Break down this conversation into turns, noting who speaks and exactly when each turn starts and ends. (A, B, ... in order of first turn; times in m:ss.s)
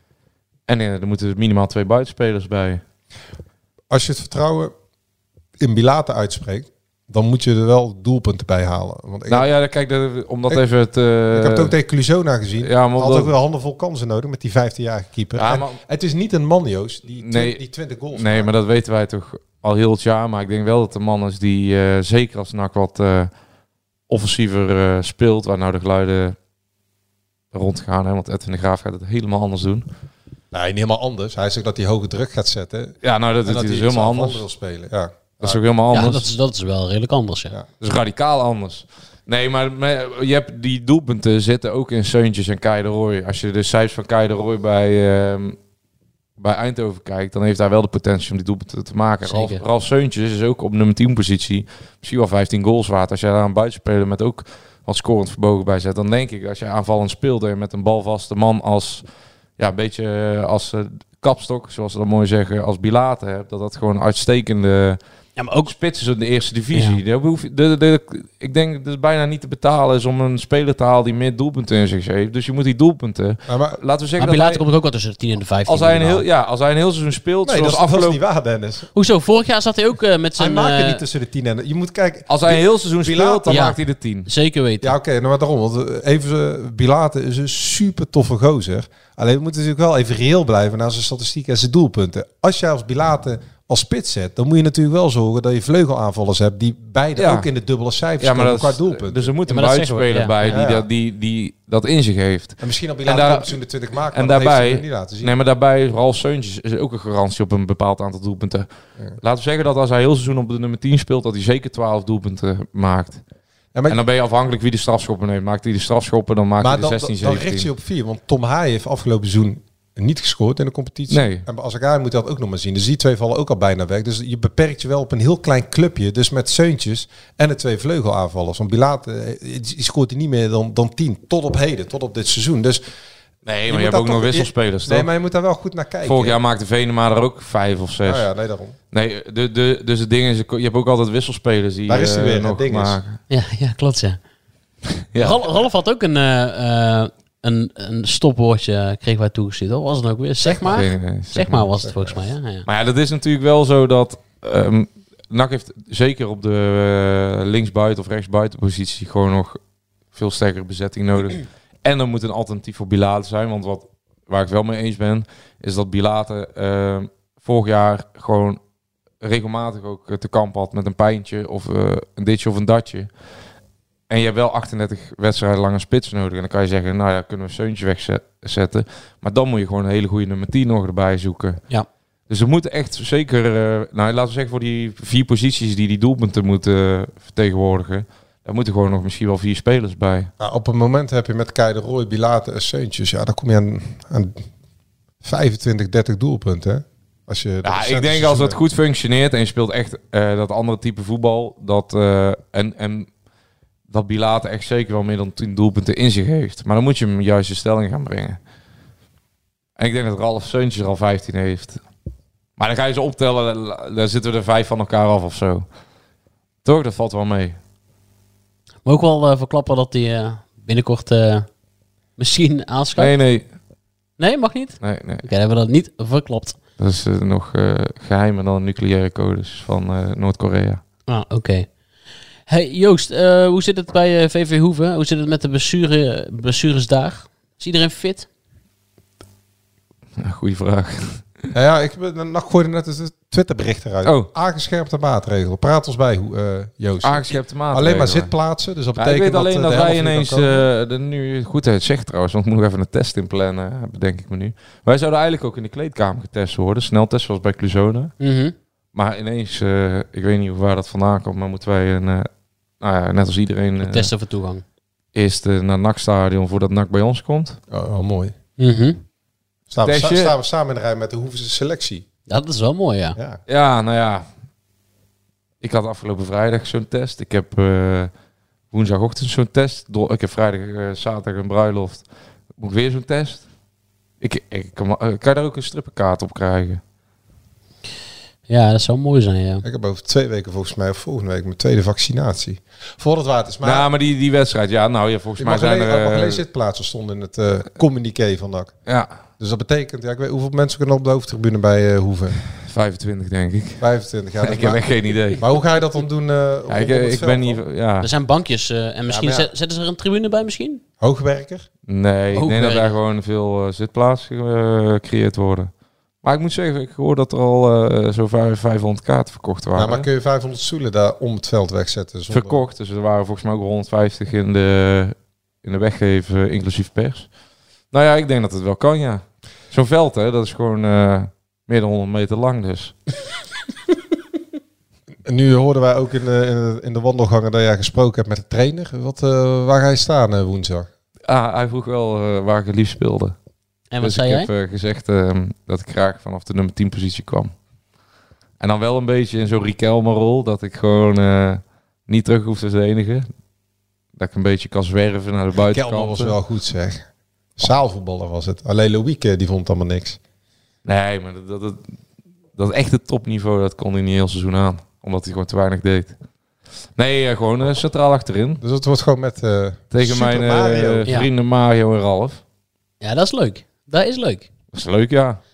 0:00.7-0:02.8 A
0:03.9-0:04.7 B
0:05.6-0:09.5 B
0:09.3-0:11.7 A
0:11.3-0:18.5 B
0:12.6-0:13.3 A
0:15.4-0:15.8 A
0:17.2-0:17.6 A
0:18.1-0:23.3 A
0:24.1-0:26.4 A
0:27.5-0:29.9 A
0:30.5-0:35.6 B
0:33.0-0:34.4 A
0:35.4-0:36.3 A
0:35.9-0:37.6 C
0:37.8-0:45.6 A
0:46.4-0:59.0 A
0:49.2-0:49.6 C
0:59.6-1:05.0 A
1:05.4-1:05.7 C
1:05.6-1:14.6 A
1:13.5-1:13.8 B
1:14.2-1:16.2 C
1:15.7-1:18.2 A
1:17.4-1:18.9 B
1:19.0-1:21.0 C
1:20.4-1:23.7 B
1:22.3-1:24.3 A
1:23.5-1:24.9 C
1:24.8-1:39.3 B
1:37.2-1:37.5 A
1:38.2-1:43.6 A
1:39.5-1:40.6 C
1:40.5-1:40.9 B
1:42.6-1:45.4 B
1:44.1-1:48.7 A
1:49.2-1:53.2 A
1:53.7-1:54.0 B
1:53.9-1:57.7 A
1:56.6-2:12.8 B
2:01.1-2:01.4 A
2:13.5-2:15.1 A
2:13.7-2:16.4 B
2:16.0-2:18.3 A
2:18.0-2:18.8 B
2:18.9-2:23.2 A
2:21.9-2:23.0 B
2:23.3-2:24.2 C
2:25.1-2:25.4 A
2:25.2-2:32.6 C
2:30.4-2:30.8 B
2:30.7-2:31.7 A
2:31.8-2:32.1 B
2:32.6-2:39.6 A
2:40.1-2:48.6 A
2:49.2-2:53.1 A
2:54.1-3:01.6 A
3:02.3-3:10.3 A
3:10.4-3:14.4 B
3:15.2-3:18.6 B
3:17.6-3:23.1 A
3:23.9-3:28.4 A
3:29.8-3:31.8 A
3:32.6-3:35.7 A
3:36.6-3:37.6 A
3:38.8-3:41.5 C
3:42.2-3:43.1 C
3:43.0-3:43.5 A
3:44.2-3:46.6 C
3:44.8-3:45.2 A
3:46.8-3:50.8 A
3:51.1-3:51.7 C
3:52.5-3:58.3 C
4:00.2-4:01.4 A
4:01.5-4:10.7 B
4:04.0-4:04.3 A
4:07.0-4:08.3 A
4:09.0-4:18.1 A
4:18.2-4:18.6 C
4:18.9-4:22.3 A
4:22.8-4:24.1 A
4:23.8-4:24.6 C
4:25.2-4:27.6 A
4:27.7-4:28.4 B
4:28.6-4:29.0 C
4:29.7-4:32.1 B
4:29.8-4:30.4 A
4:32.3-4:33.2 C
4:33.2-4:33.4 B
4:33.5-4:34.3 A
4:35.6-4:38.1 A
4:38.7-4:42.0 A
4:42.6-4:43.4 A
4:44.2-4:46.8 A
4:48.5-4:49.6 C
4:49.6-4:53.9 B
4:53.6-4:56.4 A
4:55.4-4:58.7 B
4:58.9-4:59.1 A
4:59.4-5:02.4 B
5:02.6-5:03.8 A
5:03.8-5:07.6 B
5:04.4-5:05.5 A
5:06.7-5:08.1 A
5:08.0-5:10.8 C
5:09.1-5:09.5 B
5:11.0-5:11.7 B
5:11.9-5:15.7 A
5:12.3-5:12.9 C
5:16.2-5:20.1 A
5:19.8-5:22.6 B
5:22.3-5:27.3 A
5:27.9-5:33.0 A
5:35.2-5:40.9 B
5:41.3-5:43.4 A
5:43.9-5:44.5 C
5:44.0-5:47.5 A
5:48.6-5:53.3 A
5:54.2-5:56.4 A
5:55.6-6:00.2 B
6:00.8-6:01.8 A
6:02.6-6:06.2 A
6:07.0-6:08.6 A
6:08.6-6:11.1 B
6:09.9-6:12.4 A
6:13.0-6:14.5 C
6:14.7-6:15.4 A